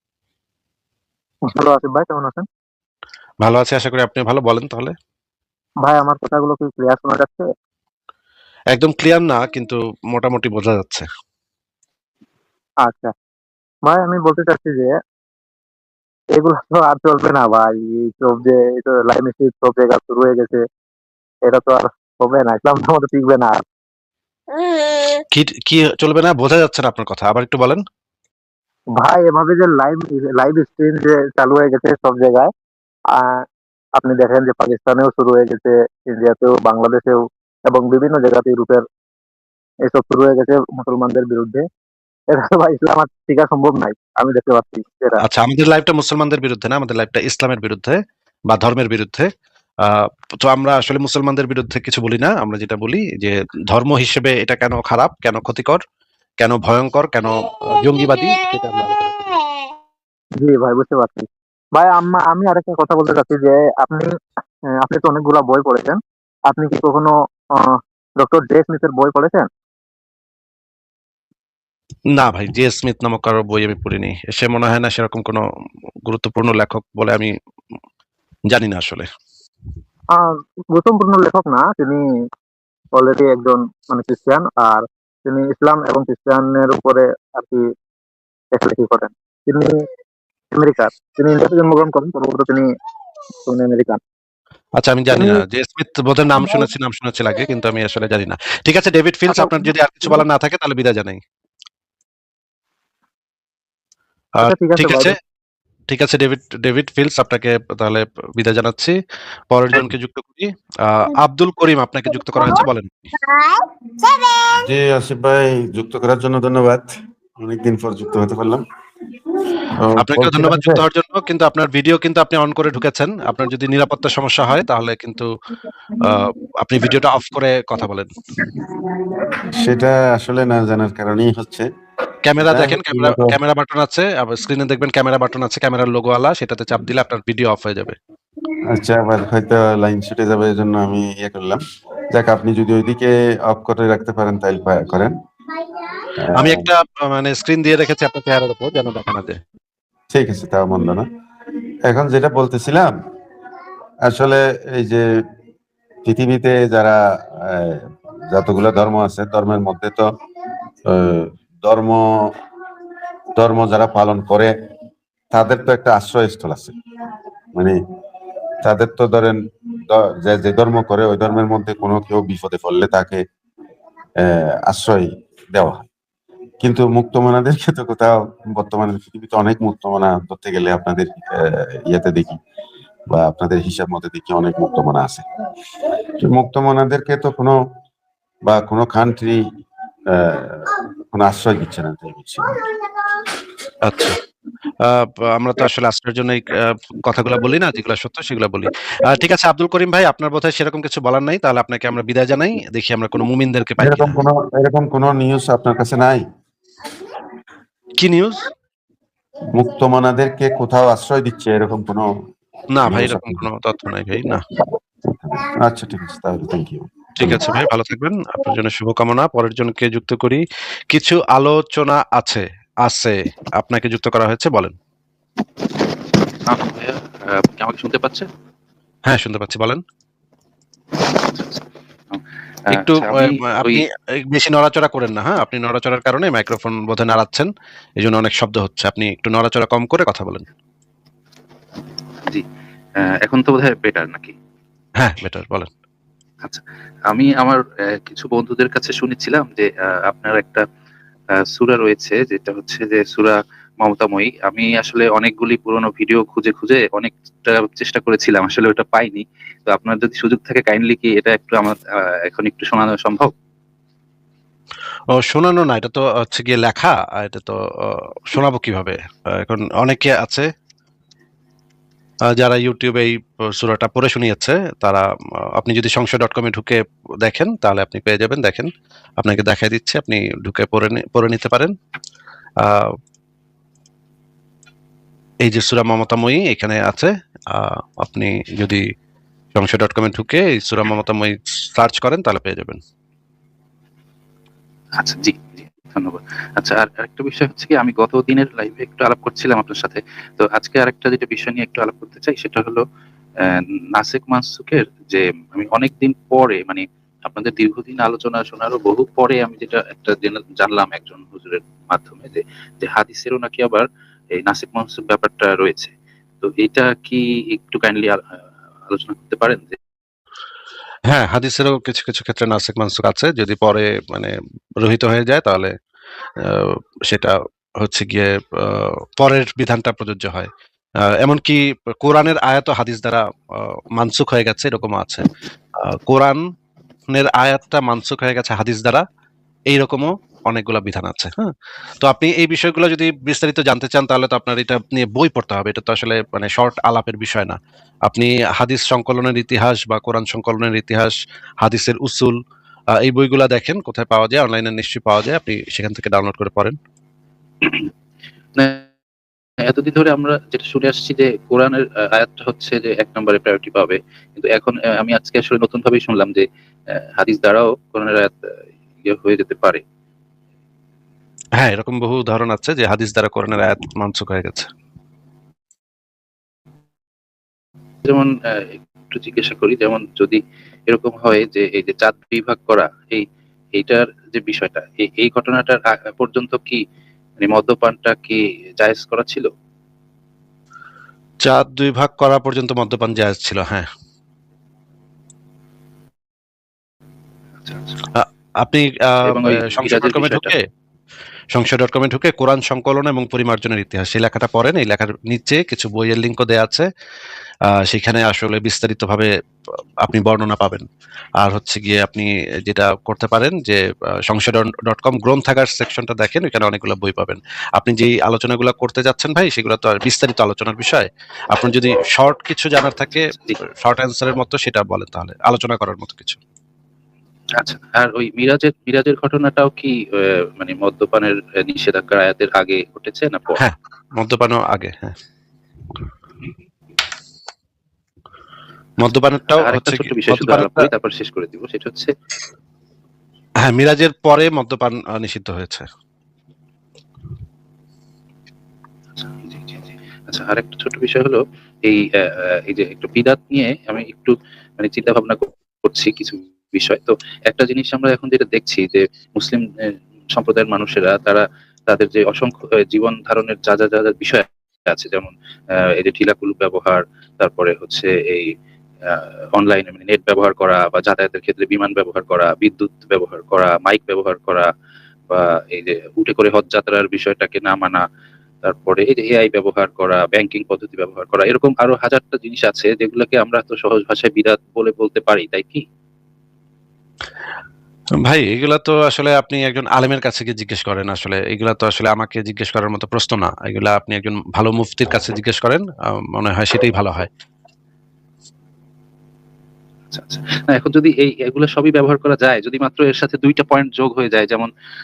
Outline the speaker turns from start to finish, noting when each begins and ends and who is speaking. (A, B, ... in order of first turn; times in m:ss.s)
0:01.5-0:02.5 A
0:03.4-0:04.9 B
0:05.8-0:07.5 A
0:08.7-0:11.1 B
0:12.8-0:13.1 A
0:13.8-0:14.9 A
0:16.3-0:20.6 A
0:21.4-0:23.6 A
0:25.3-0:27.8 B
0:29.0-0:32.5 A
0:33.1-0:33.4 A
0:34.0-0:38.8 A
0:39.8-0:41.6 A
0:42.3-0:45.2 A
0:45.2-0:49.3 B
0:49.8-0:55.8 B
0:56.4-0:59.2 B
1:00.4-1:04.1 A
1:04.8-1:09.5 A
1:12.2-1:15.4 B
1:16.0-1:17.3 B
1:18.5-1:19.1 B
1:20.1-1:22.0 A
1:23.0-1:27.6 A
1:28.5-1:29.8 A
1:30.5-1:32.7 A
1:33.4-1:34.0 A
1:34.8-1:41.2 B
1:35.1-1:35.4 A
1:39.3-1:39.6 A
1:44.4-1:45.2 B
1:44.4-1:45.1 A
1:45.9-1:49.0 B
1:49.5-1:53.1 B
1:54.5-1:58.6 C
1:59.7-2:00.8 C
2:00.0-2:05.3 B
2:06.0-2:08.1 B
2:09.4-2:11.7 C
2:12.2-2:18.0 B
2:12.4-2:13.4 C
2:18.7-2:21.6 C
2:22.1-2:25.1 C
2:26.2-2:26.6 C
2:26.3-2:29.4 B
2:30.1-2:31.1 C
2:31.8-2:32.9 C
2:34.0-2:35.0 C
2:36.0-2:40.1 C
2:40.9-2:42.3 C
2:43.3-2:44.5 C
2:45.3-2:46.7 C
2:48.6-2:49.4 C
2:49.9-2:53.2 C
2:54.2-2:55.8 C
2:56.6-3:02.4 C
3:03.1-3:05.2 C
3:06.2-3:07.6 C
3:08.5-3:09.4 C
3:10.1-3:12.6 C
3:13.8-3:14.2 B
3:14.8-3:24.2 B
3:23.8-3:26.2 C
3:28.0-3:28.5 B
3:29.5-3:32.1 C
3:32.7-3:34.4 B
3:32.8-3:33.4 C
3:35.2-3:37.5 C
3:37.2-3:44.7 B
3:46.5-3:48.3 D
3:49.0-3:49.8 B
3:51.0-3:53.8 D
3:52.7-4:00.4 B
4:03.0-4:04.3 D
4:05.0-4:05.7 B
4:06.4-4:10.6 D
4:11.4-4:23.3 D
4:25.1-4:30.5 B
4:32.4-4:35.0 B
4:35.6-4:41.7 B
4:45.4-4:48.8 B
4:49.5-4:52.8 B
4:55.0-5:02.8 D
5:03.4-5:18.2 D
5:18.9-5:19.8 D
5:21.1-5:25.7 B
5:26.4-5:30.5 B
5:31.2-5:35.2 B
5:35.8-5:36.4 B
5:37.1-5:39.0 B
5:39.7-5:52.4 B
5:53.0-5:56.8 B
5:58.6-5:58.8 D
5:59.6-6:08.5 D
6:09.0-6:09.8 D
6:11.6-6:14.7 B
6:18.0-6:26.8 D
6:27.4-6:29.5 D
6:31.4-6:33.9 B
6:37.6-6:38.0 D
6:38.1-6:40.6 B
6:39.2-6:40.5 D
6:41.5-6:46.9 B
6:47.9-6:49.3 B
6:50.0-6:50.8 B
6:51.4-7:06.4 B
7:07.6-7:13.6 D
7:13.6-7:15.1 B
7:19.0-7:20.9 B
7:19.5-7:22.1 D
7:23.6-7:25.8 B
7:29.2-7:48.5 D
7:49.0-7:54.7 D
7:55.3-7:58.0 D
7:58.6-8:05.8 D
8:08.2-8:17.3 B
8:20.1-8:24.7 D